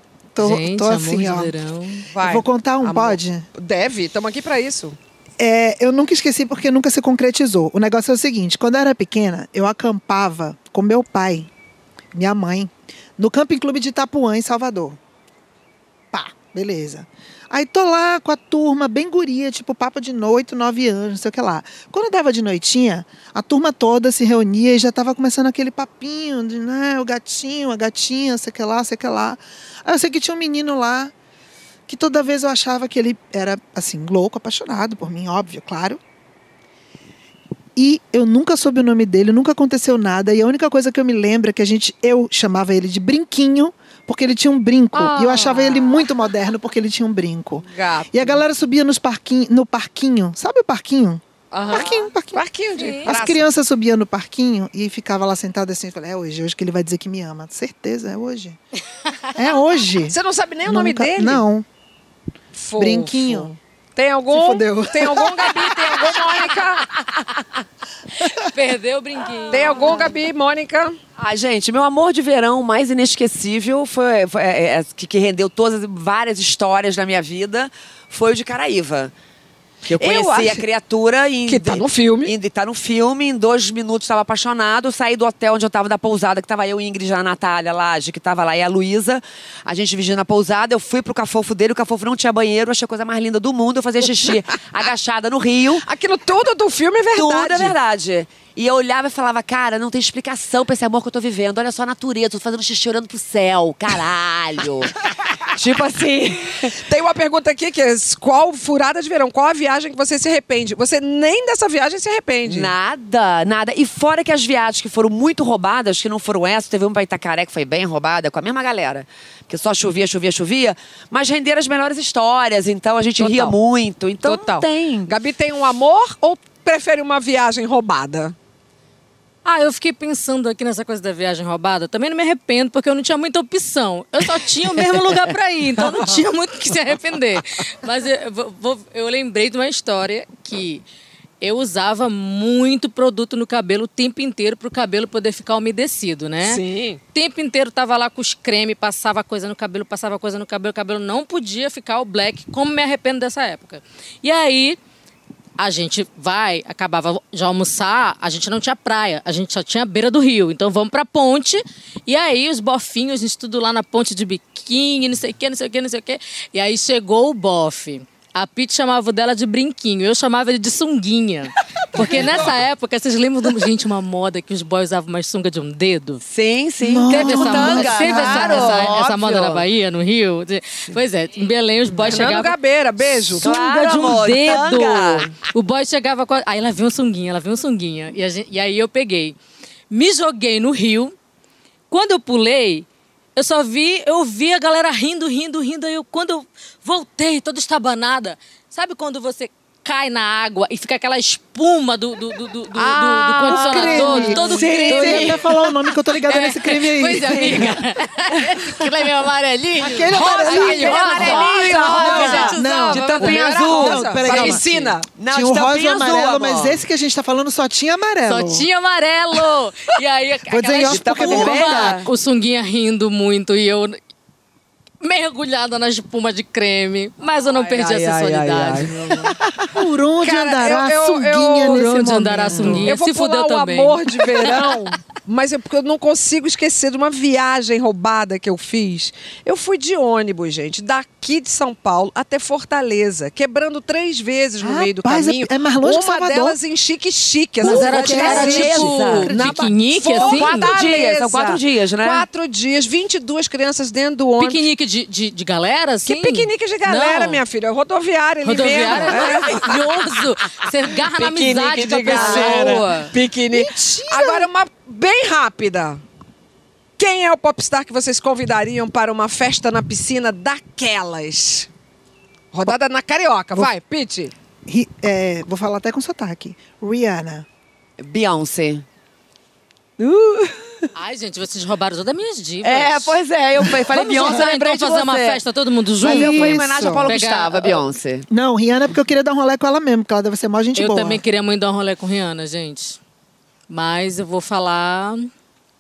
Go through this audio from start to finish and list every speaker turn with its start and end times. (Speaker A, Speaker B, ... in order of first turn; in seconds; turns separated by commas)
Speaker A: 0.3-1.5, Speaker B: 0.4-2.1, Speaker C: 2.1-5.0, Speaker A: 2.1-3.5, Speaker A: 5.4-11.5, Speaker A: 12.1-15.0, Speaker A: 16.1-31.1, Speaker A: 31.9-36.0, Speaker A: 37.8-52.5, Speaker C: 44.9-46.1, Speaker C: 47.6-48.4, Speaker C: 51.5-53.4, Speaker B: 52.8-53.1, Speaker A: 53.0-58.6, Speaker A: 59.4-61.7, Speaker C: 60.1-61.4, Speaker C: 62.5-66.9, Speaker A: 62.8-63.5, Speaker A: 64.3-65.5, Speaker B: 68.4-70.1, Speaker C: 69.5-71.0, Speaker D: 71.2-79.1, Speaker D: 79.8-95.8, Speaker C: 80.0-80.7, Speaker C: 81.5-82.3, Speaker C: 95.8-97.8, Speaker D: 97.1-106.8, Speaker C: 106.6-112.7, Speaker D: 112.5-125.1, Speaker C: 123.2-123.6, Speaker C: 124.2-128.3, Speaker B: 129.4-140.8, Speaker D: 134.8-135.2, Speaker D: 135.8-136.1, Speaker B: 141.4-146.6, Speaker C: 146.4-147.0, Speaker B: 147.1-154.8, Speaker B: 155.6-176.2, Speaker C: 172.0-172.5, Speaker D: 176.2-179.6, Speaker A: 176.8-178.7, Speaker B: 177.1-182.6, Speaker C: 182.1-183.5, Speaker B: 183.4-189.4, Speaker D: 183.4-185.3, Speaker B: 189.9-191.2, Speaker B: 191.9-213.4, Speaker D: 202.7-205.4, Speaker A: 203.4-207.7, Speaker D: 207.2-207.8, Speaker D: 208.4-208.8, Speaker A: 209.8-214.6, Speaker C: 210.1-215.1, Speaker D: 210.2-214.6, Speaker B: 214.2-214.9, Speaker D: 215.1-216.8, Speaker A: 215.2-218.7, Speaker B: 218.3-224.0, Speaker A: 220.5-222.0, Speaker D: 220.8-222.1, Speaker B: 225.0-229.3, Speaker C: 227.5-229.3, Speaker A: 229.7-232.9, Speaker C: 230.2-231.8, Speaker B: 231.6-234.5, Speaker C: 232.7-254.7, Speaker A: 244.6-246.6, Speaker B: 247.6-250.7, Speaker D: 247.7-249.3, Speaker A: 247.7-249.6, Speaker D: 250.1-252.3, Speaker B: 254.4-257.4, Speaker C: 256.1-259.8, Speaker B: 258.4-263.1, Speaker D: 259.3-259.6, Speaker C: 260.9-266.0, Speaker D: 261.7-262.8, Speaker A: 263.5-264.5, Speaker C: 267.0-271.7, Speaker C: 272.5-274.3, Speaker A: 274.7-277.5, Speaker D: 278.0-278.9, Speaker D: 280.0-280.7, Speaker B: 280.9-283.2, Speaker D: 282.6-285.4, Speaker B: 283.9-287.8, Speaker D: 286.0-288.3, Speaker A: 286.0-287.1, Speaker A: 288.3-291.2, Speaker B: 290.8-293.0, Speaker B: 293.7-295.3